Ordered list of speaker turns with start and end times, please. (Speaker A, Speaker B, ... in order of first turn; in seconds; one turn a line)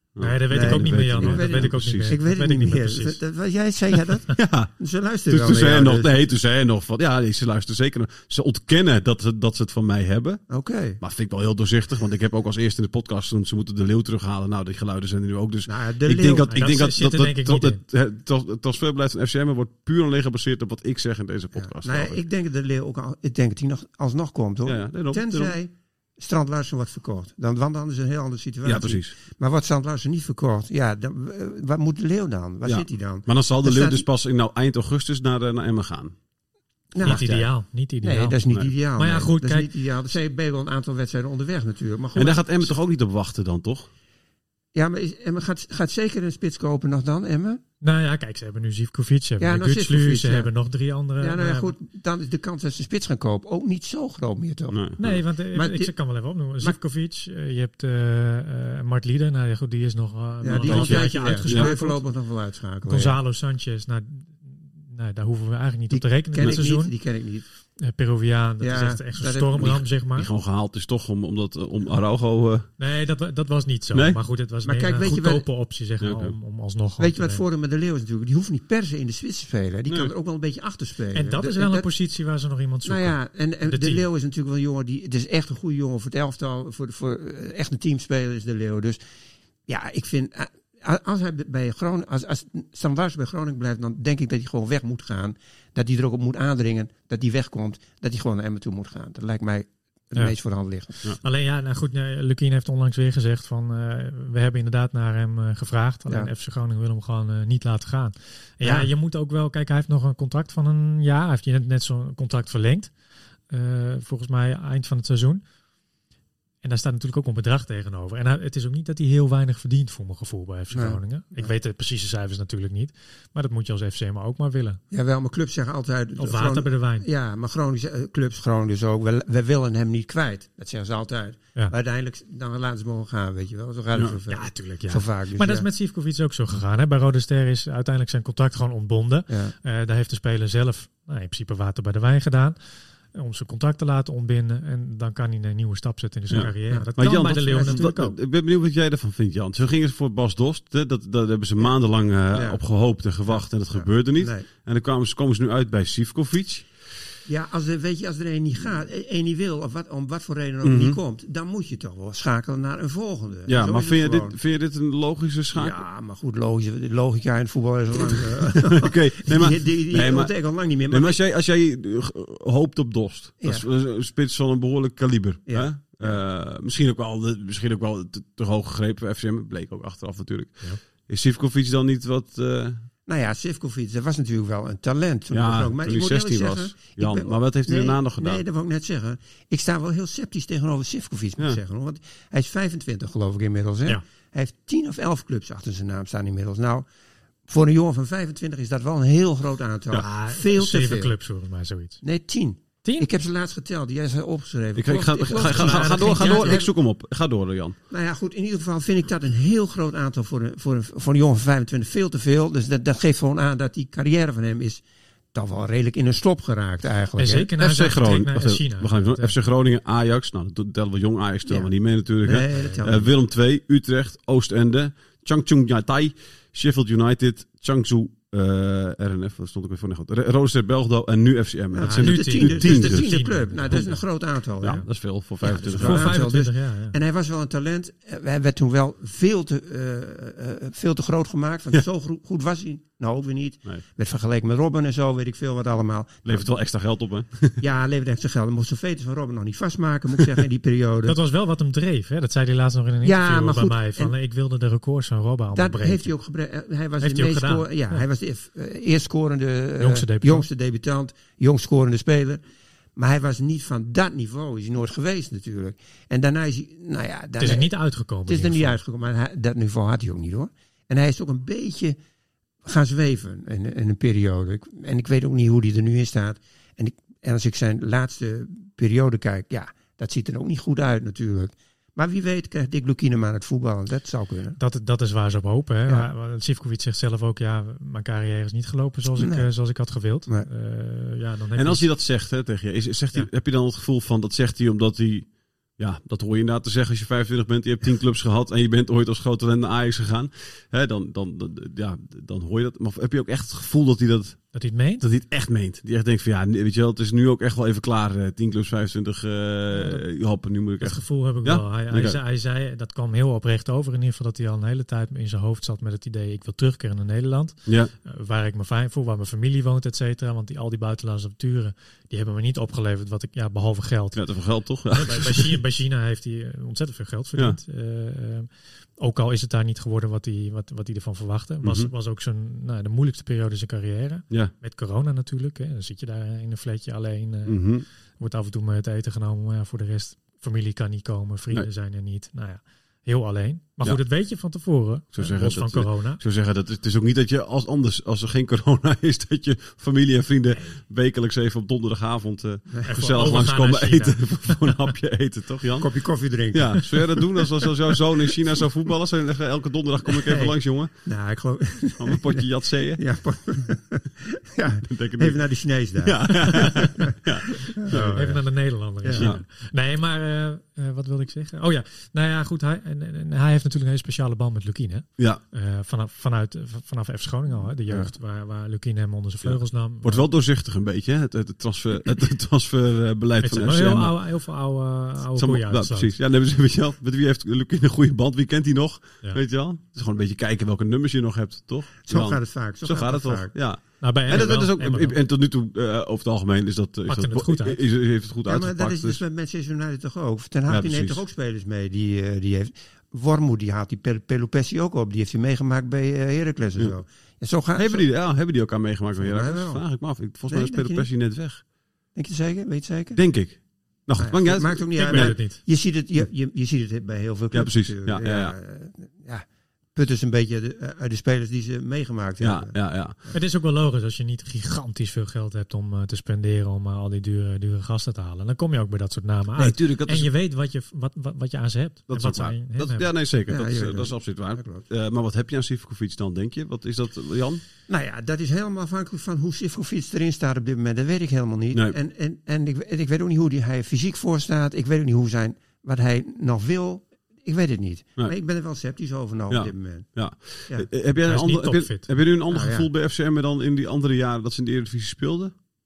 Speaker A: 0.2-2.2
Speaker B: 0.2-3.2
Speaker C: 0.3-6.1
Speaker A: 4.4-4.7
Speaker A: 5.3-10.4
Speaker C: 10.5-11.0
Speaker A: 11.0-22.2
Speaker C: 15.7-16.7
Speaker B: 16.5-17.8
Speaker C: 21.5-34.0
Speaker A: 24.6-25.5
Speaker A: 28.6-29.1
Speaker A: 32.6-36.1
Speaker C: 36.9-37.2
Speaker A: 37.0-37.5
Speaker B: 37.0-38.4
Speaker C: 38.0-42.8
Speaker B: 38.9-39.7
Speaker A: 42.1-43.9
Speaker C: 44.7-47.6
Speaker B: 47.8-51.7
Speaker C: 49.4-50.5
Speaker C: 51.2-54.8
Speaker A: 54.7-55.2
Speaker B: 55.0-62.0
Speaker C: 55.5-55.9
Speaker C: 60.4-63.2
Speaker A: 60.6-61.7
Speaker B: 62.9-66.9
Speaker C: 65.9-67.5
Speaker B: 67.8-70.3
Speaker C: 68.6-69.8
Speaker A: 70.2-72.7
Speaker B: 72.8-77.4
Speaker A: 73.9-74.2
Speaker C: 74.6-75.5
Speaker A: 76.0-76.3
Speaker C: 77.0-81.9
Speaker B: 81.1-84.0
Speaker C: 82.8-89.0
Speaker C: 89.7-101.0
Speaker B: 101.2-112.9
Speaker C: 108.6-108.9
Speaker B: 113.5-115.4
Speaker B: 116.6-124.8
Speaker C: 120.7-121.5
Speaker C: 124.9-135.7
Speaker B: 126.2-127.0
Speaker B: 134.3-148.2
Speaker C: 139.3-139.5
Speaker A: 146.3-156.7
Speaker C: 146.7-147.9
Speaker C: 152.3-152.6
Speaker C: 153.2-154.4
Speaker C: 157.2-164.3
Speaker A: 160.6-161.0
Speaker A: 163.5-165.8
Speaker C: 165.5-171.2
Speaker A: 168.6-182.8
Speaker C: 175.5-176.2
Speaker C: 183.1-196.9
Speaker A: 185.3-188.4
Speaker C: 197.5-201.2
Speaker B: 199.9-202.0
Speaker C: 202.0-206.7
Speaker B: 202.8-203.1
Speaker A: 204.8-207.8
Speaker B: 205.3-206.6
Speaker C: 207.9-214.8
Speaker C: 215.3-217.5
Speaker B: 217.2-219.4
Speaker A: 217.6-233.1
Speaker C: 221.5-223.1
Speaker B: 222.5-222.8
Speaker C: 231.7-234.8
Speaker B: 231.8-234.0
Speaker A: 233.7-233.9
Speaker A: 234.6-236.2
Speaker C: 235.4-246.5
Speaker B: 235.4-237.0
Speaker A: 246.2-247.6
Speaker C: 247.6-251.2
Speaker B: 251.1-256.1
Speaker C: 253.0-254.1
Speaker C: 255.5-262.4
Speaker B: 257.0-258.0
Speaker B: 259.8-260.4
Speaker C: 262.9-272.0
Speaker B: 267.4-268.8
Speaker C: 272.6-284.6
Speaker B: 284.6-291.9
Speaker C: 289.1-289.5
Speaker A: 291.6-312.2
Speaker B: 304.5-305.0
Speaker B: 309.7-310.0
Speaker B: 310.8-324.2
Speaker A: 317.6-317.9
Speaker A: 324.1-325.5
Speaker B: 324.9-346.2
Speaker A: 331.6-331.9
Speaker A: 337.5-337.8
Speaker A: 345.1-355.9
Speaker B: 350.5-350.8
Speaker B: 352.9-354.7
Speaker C: 355.8-357.2
Speaker A: 356.5-360.9
Speaker C: 360.1-367.1
Speaker A: 362.0-363.3
Speaker A: 364.9-365.4
Speaker A: 366.0-368.2
Speaker C: 367.8-368.4
Speaker B: 367.9-380.3
Speaker C: 369.0-369.3
Speaker A: 379.4-384.1
Speaker B: 383.4-386.1
Speaker A: 385.3-399.2
Speaker C: 392.1-393.6
Speaker B: 394.0-395.2
Speaker B: 397.1-397.8
Speaker C: 398.4-408.1
Speaker A: 400.7-401.2
Speaker A: 407.7-411.6
Speaker C: 409.2-409.8
Speaker C: 410.5-411.1
Speaker C: 412.1-413.2
Speaker A: 413.1-415.4
Speaker C: 414.2-423.4
Speaker B: 415.0-415.6
Speaker A: 417.5-418.6
Speaker A: 422.4-423.1
Speaker B: 423.3-433.1
Speaker A: 429.6-430.3
Speaker A: 432.1-437.6
Speaker C: 433.5-434.9
Speaker C: 437.9-450.9
Speaker A: 449.5-455.5
Speaker B: 451.2-452.1
Speaker C: 452.5-452.9